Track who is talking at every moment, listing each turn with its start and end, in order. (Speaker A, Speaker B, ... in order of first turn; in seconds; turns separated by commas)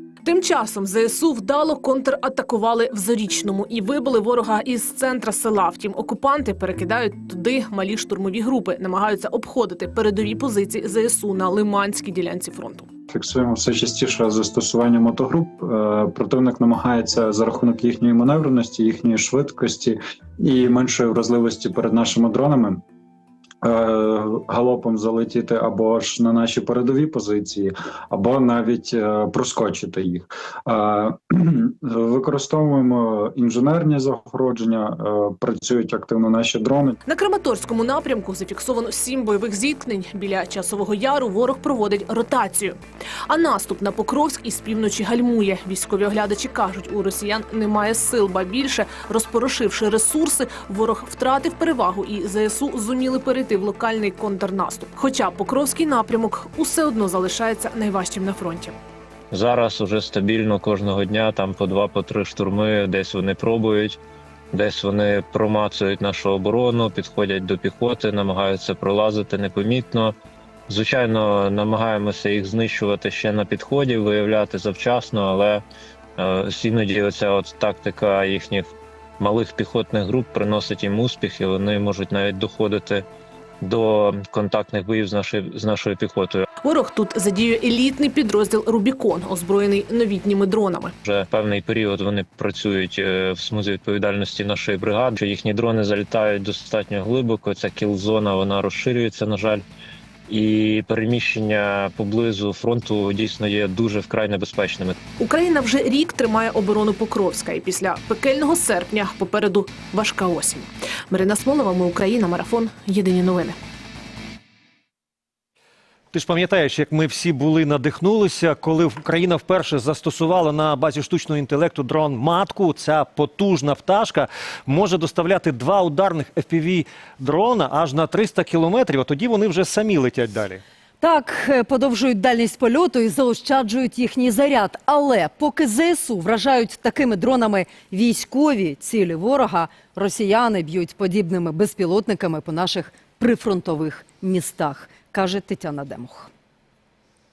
Speaker A: 0.2-12.9, Speaker B: 13.1-22.8, Speaker B: 23.6-37.0, Speaker A: 37.1-42.8, Speaker A: 43.3-58.8, Speaker C: 59.3-64.0, Speaker C: 64.5-70.2, Speaker C: 70.7-75.6, Speaker C: 76.2-78.7, Speaker C: 79.2-83.1, Speaker C: 83.6-86.5, Speaker A: 86.6-90.9, Speaker C: 91.0-99.6, Speaker C: 100.3-105.0, Speaker A: 105.2-113.5, Speaker D: 116.1-130.6, Speaker E: 131.0-146.3